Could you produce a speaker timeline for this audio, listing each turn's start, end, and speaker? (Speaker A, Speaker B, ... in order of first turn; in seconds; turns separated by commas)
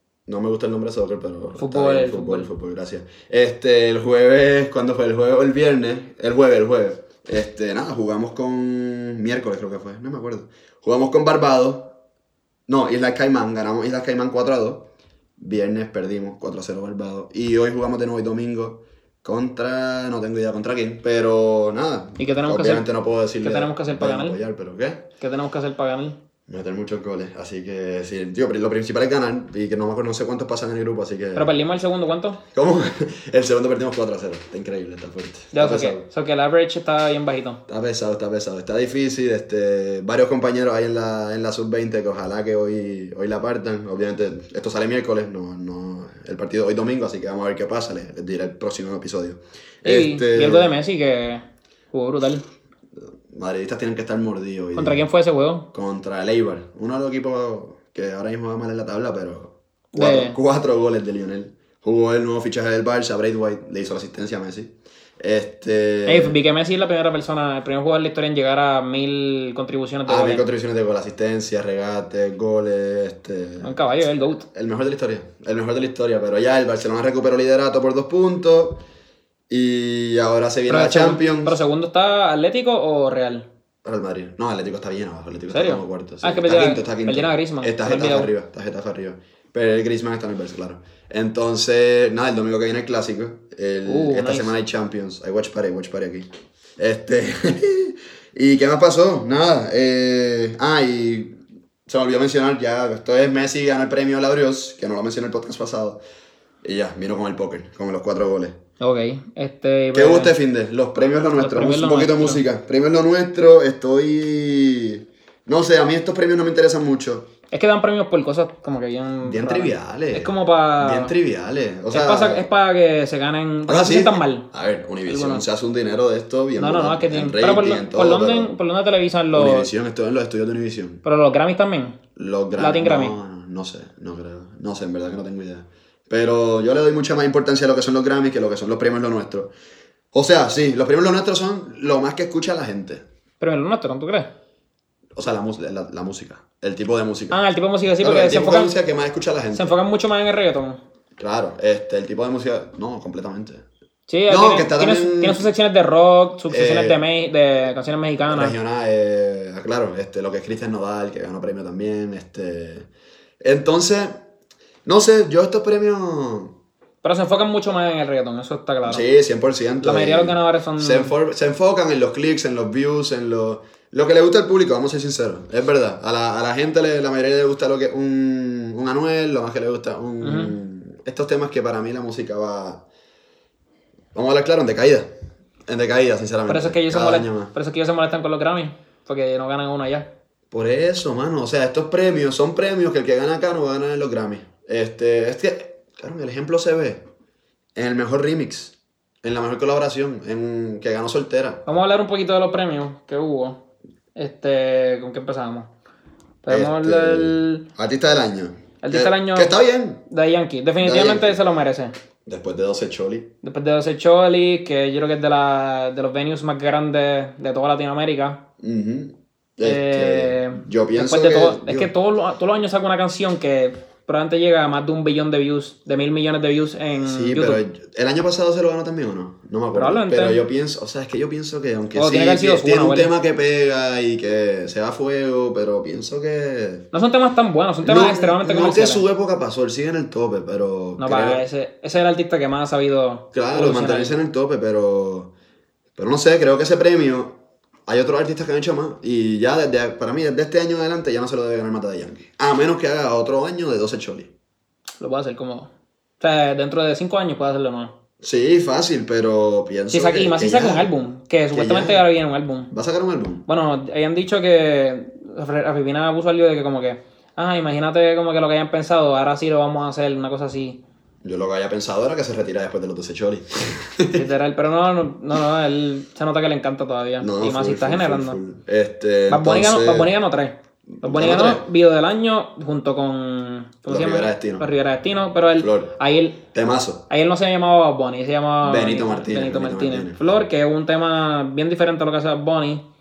Speaker A: 0.3-12.0, Speaker B: 1.6-2.5, Speaker A: 12.7-25.1, Speaker B: 22.2-22.9, Speaker B: 23.4-24.4, Speaker B: 25.2-26.2, Speaker A: 26.5-31.5, Speaker B: 31.3-32.4, Speaker A: 32.5-36.0, Speaker B: 35.5-37.6, Speaker A: 37.7-50.7, Speaker B: 49.8-52.4, Speaker A: 53.3-55.0, Speaker B: 54.7-55.7, Speaker A: 55.7-66.3, Speaker B: 59.9-60.4, Speaker B: 66.0-70.5, Speaker A: 70.0-73.7, Speaker B: 73.6-74.5, Speaker A: 74.5-78.8, Speaker A: 79.5-81.6, Speaker B: 80.7-83.5, Speaker A: 83.8-106.0, Speaker B: 85.5-88.3, Speaker B: 93.8-94.5, Speaker A: 106.6-108.6, Speaker B: 108.8-110.3, Speaker A: 109.9-117.3, Speaker B: 111.3-112.4, Speaker B: 117.5-121.1, Speaker A: 119.2-122.5, Speaker B: 121.9-124.5, Speaker A: 123.7-128.5, Speaker B: 125.0-125.4, Speaker B: 126.6-129.7, Speaker A: 129.3-131.0, Speaker B: 131.0-132.0, Speaker A: 132.2-139.5, Speaker B: 132.6-133.2, Speaker A: 140.1-143.0, Speaker B: 143.4-144.3, Speaker A: 145.1-147.4, Speaker B: 147.3-148.7, Speaker A: 148.0-149.8, Speaker B: 149.5-150.8, Speaker A: 151.2-153.6, Speaker B: 154.1-158.5, Speaker A: 154.3-155.5, Speaker A: 156.5-157.0, Speaker A: 158.3-162.9, Speaker A: 163.4-164.2, Speaker A: 164.8-166.5, Speaker B: 167.0-169.1, Speaker A: 168.8-182.8, Speaker B: 169.8-171.1, Speaker B: 180.2-180.6, Speaker A: 184.1-185.1, Speaker A: 185.7-187.5, Speaker B: 186.5-190.1, Speaker A: 190.5-197.0, Speaker A: 197.7-201.6, Speaker B: 201.7-203.6, Speaker B: 204.2-205.7, Speaker B: 206.4-207.7, Speaker A: 206.5-210.0, Speaker B: 208.8-209.5, Speaker B: 210.1-211.9, Speaker A: 210.8-211.4, Speaker A: 212.2-213.3, Speaker B: 213.4-218.4, Speaker A: 218.6-221.9, Speaker B: 219.6-227.6, Speaker A: 227.0-236.8, Speaker B: 229.7-230.4, Speaker B: 231.9-233.1, Speaker B: 236.9-239.0, Speaker A: 237.8-241.4, Speaker B: 241.0-244.2, Speaker A: 243.3-245.3, Speaker A: 245.9-254.3, Speaker B: 255.0-257.9, Speaker A: 258.2-260.9, Speaker B: 259.9-262.7, Speaker A: 261.5-262.0, Speaker A: 262.7-263.4, Speaker B: 263.5-270.8, Speaker A: 271.2-274.2, Speaker B: 274.1-278.4, Speaker A: 277.2-280.1, Speaker B: 279.3-286.4, Speaker A: 281.0-281.6, Speaker A: 283.9-284.6, Speaker A: 285.6-285.9, Speaker A: 286.4-287.1, Speaker B: 287.1-292.8, Speaker A: 288.6-290.4